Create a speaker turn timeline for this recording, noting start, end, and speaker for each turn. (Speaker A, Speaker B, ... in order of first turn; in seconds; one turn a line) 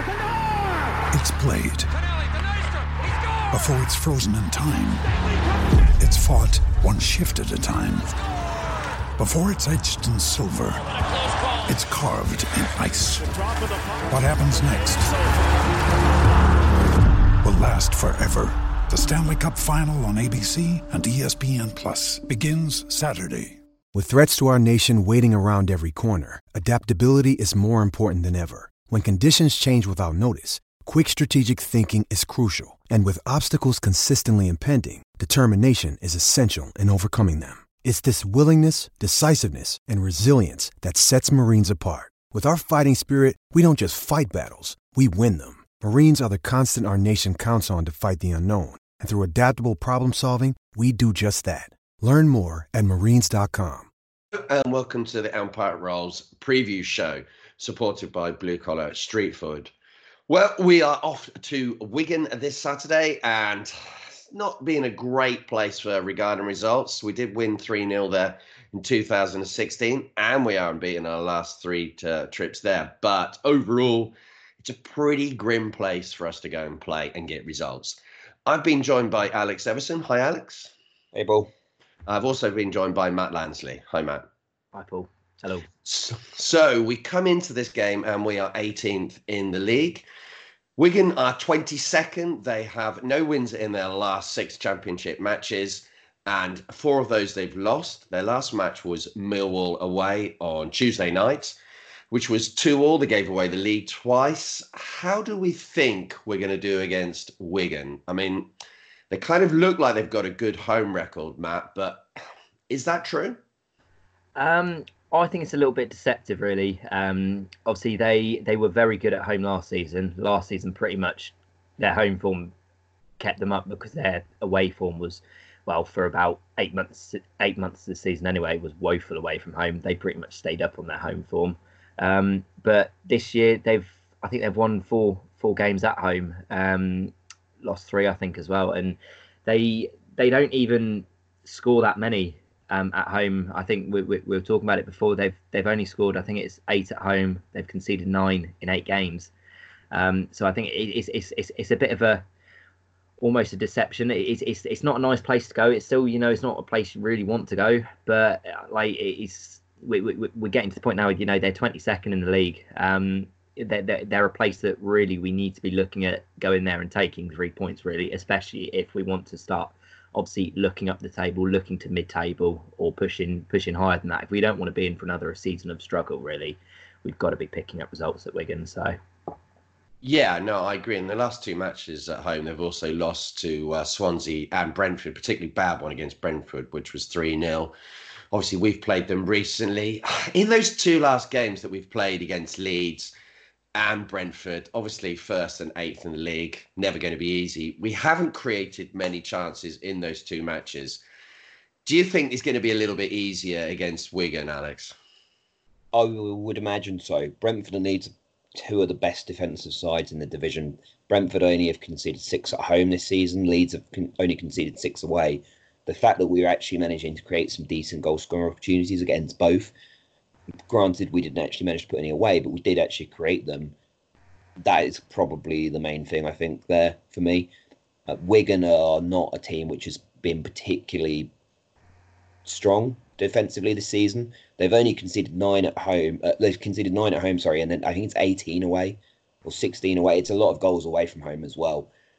Speaker A: 1.1-1.9
Speaker A: 3.5-5.0
Speaker A: 6.0-8.0
Speaker A: 9.2-10.8
Speaker A: 11.7-13.2
Speaker A: 14.1-15.0
Speaker A: 17.4-23.6
Speaker B: 23.9-53.9
Speaker C: 54.5-59.7
Speaker C: 60.3-80.7
Speaker D: 81.1-81.5
Speaker C: 82.1-84.2
Speaker E: 84.7-85.7
Speaker C: 85.8-90.1
Speaker C: 90.8-101.6
Speaker C: 102.1-108.5
Speaker C: 109.1-112.1
Speaker C: 112.7-113.4
Speaker E: 114.3-122.5
Speaker E: 123.2-149.3
Speaker E: 149.9-152.2
Speaker E: 153.2-178.9
Speaker C: 180.0-187.7
Speaker C: 188.3-193.1
Speaker C: 193.8-201.0
Speaker C: 201.8-204.9
Speaker D: 205.9-219.7
Speaker D: 220.7-223.7
Speaker D: 224.6-227.5
Speaker D: 228.1-231.3
Speaker D: 232.4-241.9